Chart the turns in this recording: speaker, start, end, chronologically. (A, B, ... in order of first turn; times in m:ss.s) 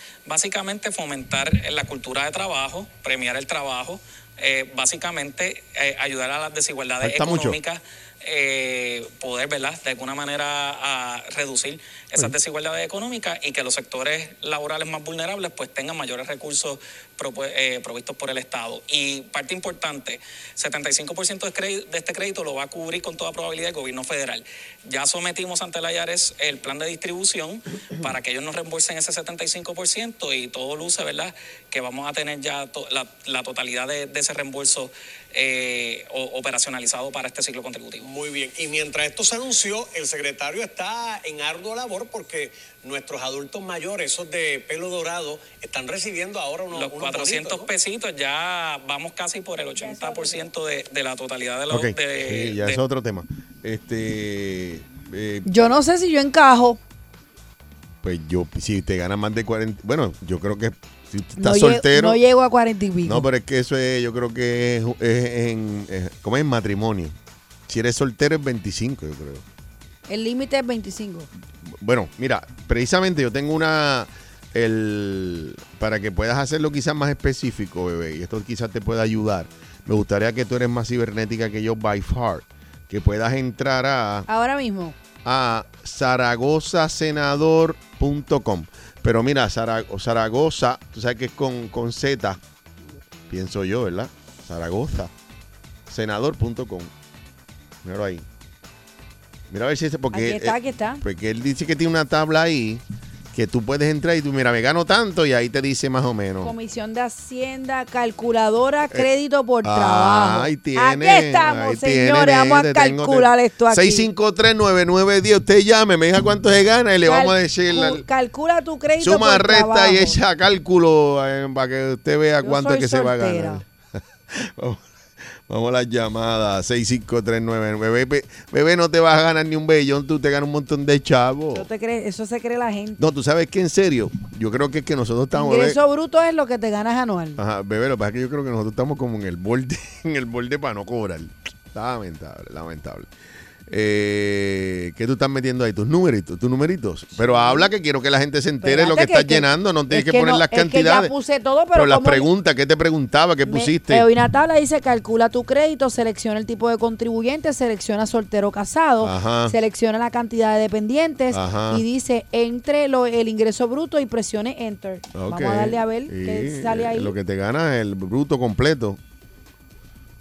0:00.3-0:38.1 A
0:07.0-0:07.6 B
0:38.0-0:47.7 C
0:46.7-0:52.8 A
0:49.8-0:50.4 D
0:51.7-0:55.6 B
0:55.4-0:56.8 D
0:58.0-1:02.2 B
1:01.4-1:03.3 D
1:03.0-1:07.1 B
1:07.7-1:09.4 B
1:10.1-1:11.3 D
1:11.6-1:24.3 B
1:24.3-1:25.0 D
1:25.2-1:32.4 B
1:33.3-1:35.1 B
1:35.9-1:36.9 B
1:37.8-1:38.2 B
1:39.5-1:46.6 B
1:40.1-1:41.0 D
1:46.4-1:54.1 D
1:49.6-1:58.0 B
1:57.0-2:00.2 D
1:59.0-2:03.6 B
2:02.4-2:03.6 D
2:04.3-2:04.8 B
2:05.5-2:11.7 B
2:11.5-2:13.0 D
2:13.0-2:15.8 B
2:15.3-2:17.4 D
2:17.4-2:23.1 B
2:23.7-2:31.1 B
2:27.1-2:27.7 D
2:28.6-2:32.3 D
2:31.7-2:34.1 B
2:33.5-2:47.1 D
2:39.0-2:39.6 B
2:41.3-2:41.8 B
2:45.1-2:49.0 B